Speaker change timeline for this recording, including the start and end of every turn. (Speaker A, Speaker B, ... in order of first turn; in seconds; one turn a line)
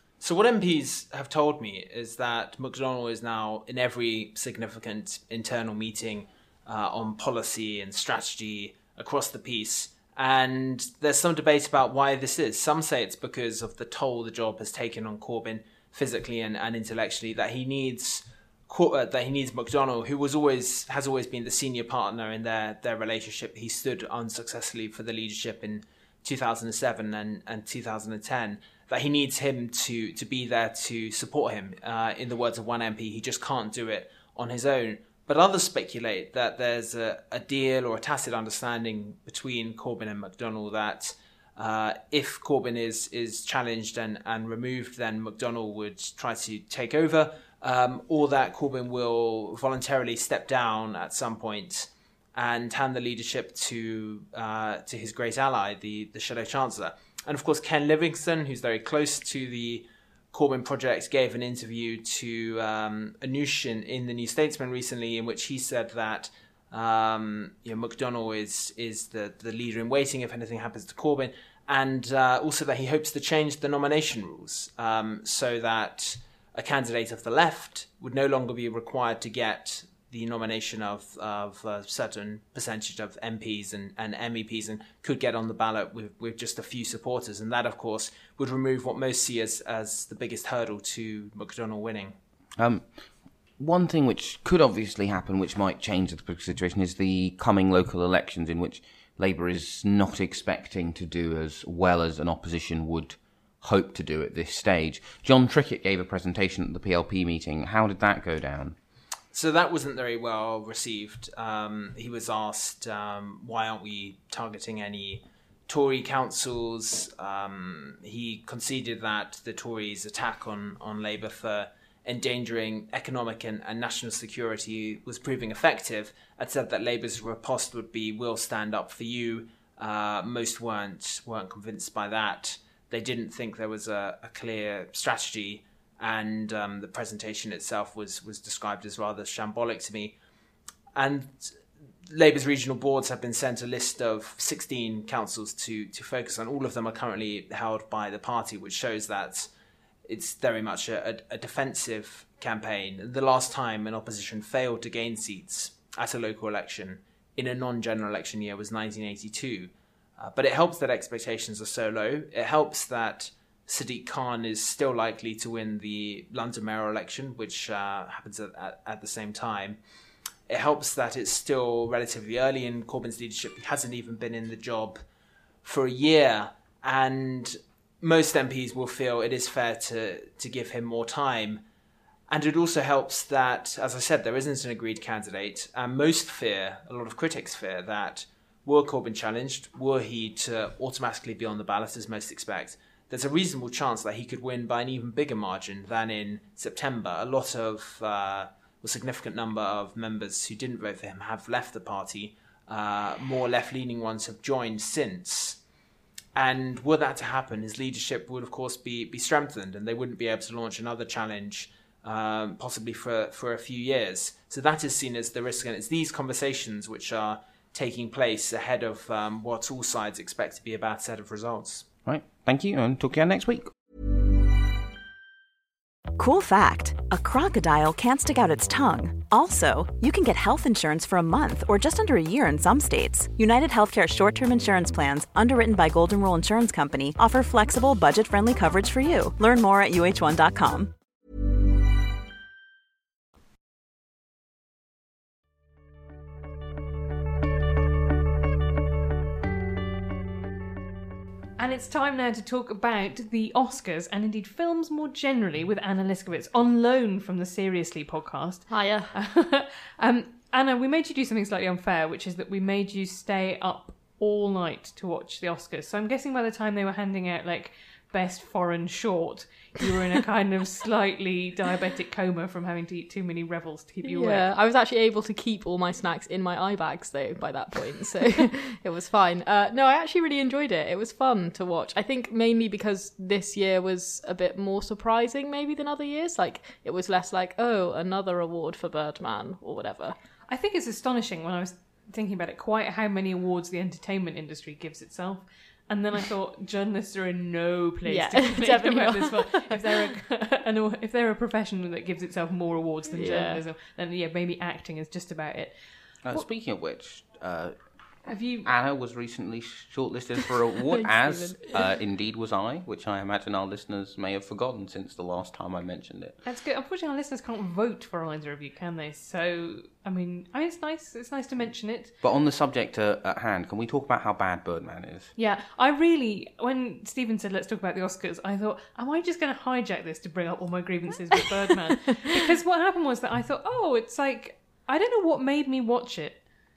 Speaker A: 0.2-92.1
Speaker B: 92.6-92.9
Speaker B: 93.6-108.8
Speaker A: 109.3-140.2
Speaker A: 140.9-149.5
Speaker A: 150.1-169.8
Speaker A: 170.5-175.0
Speaker A: 175.6-181.6
Speaker A: 182.3-205.6
Speaker A: 206.3-221.9
Speaker B: 222.1-223.7
Speaker C: 226.2-240.9
Speaker D: 251.6-274.5
Speaker E: 258.7-259.1
Speaker E: 274.0-290.2
Speaker D: 290.5-305.7
Speaker E: 298.1-300.1
Speaker E: 303.1-303.6
Speaker B: 306.2-307.8
Speaker D: 308.3-308.7
Speaker B: 308.6-316.4
Speaker E: 310.9-311.8
Speaker D: 316.4-322.1
Speaker B: 322.2-325.3
Speaker D: 325.4-336.4